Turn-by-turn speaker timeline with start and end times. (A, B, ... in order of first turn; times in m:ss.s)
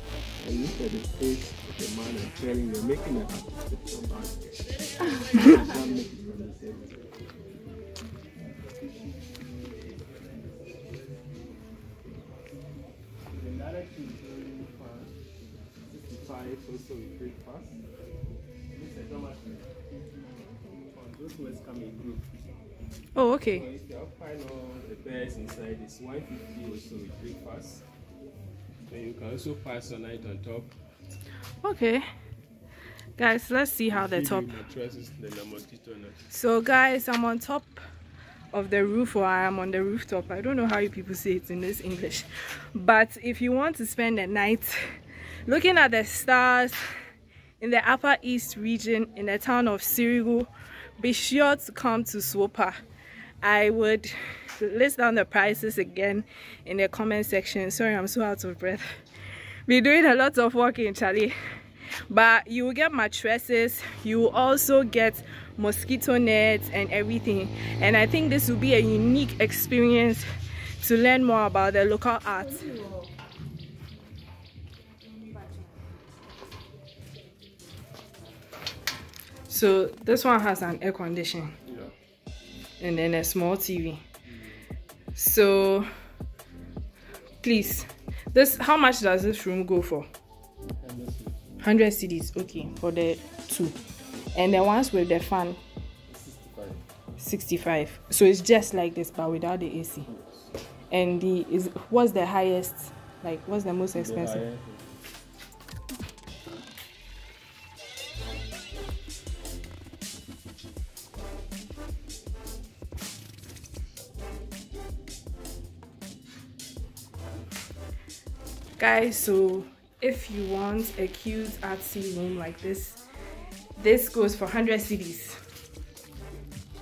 0:00.4-0:07.0 A
0:13.3-0:15.1 A
0:15.9-0:17.8 A
0:18.7-0:19.7 A
0:20.8-0:22.5 A
0:23.1-0:23.7 B
0:23.5-0:27.8 A
0:28.9-0:30.7 A
0:31.6-0:32.0 B
0:33.2-0:34.5 B
0:33.9-0:36.3 A
0:36.3-0:37.8 B
0:38.5-0:44.8 B
0:45.5-0:46.8 B
0:47.6-0:52.8 B
0:53.4-0:58.9 B
0:59.7-1:01.3 B
1:02.1-1:10.3 B
1:10.8-1:12.8 B
1:19.5-1:21.5 B
1:21.6-1:21.9 A
1:22.8-1:24.0 B
1:24.3-1:24.6 A
1:25.2-1:25.9 B
1:27.4-1:30.1 B
1:30.8-1:31.4 A
1:31.6-1:33.8 B
1:34.3-1:35.6 B
1:36.1-1:36.8 A
1:37.2-1:40.1 B
1:40.0-1:40.5 A
1:40.9-1:44.4 B
1:44.0-1:45.0 A
1:58.8-2:03.0 B
2:03.8-2:05.4 B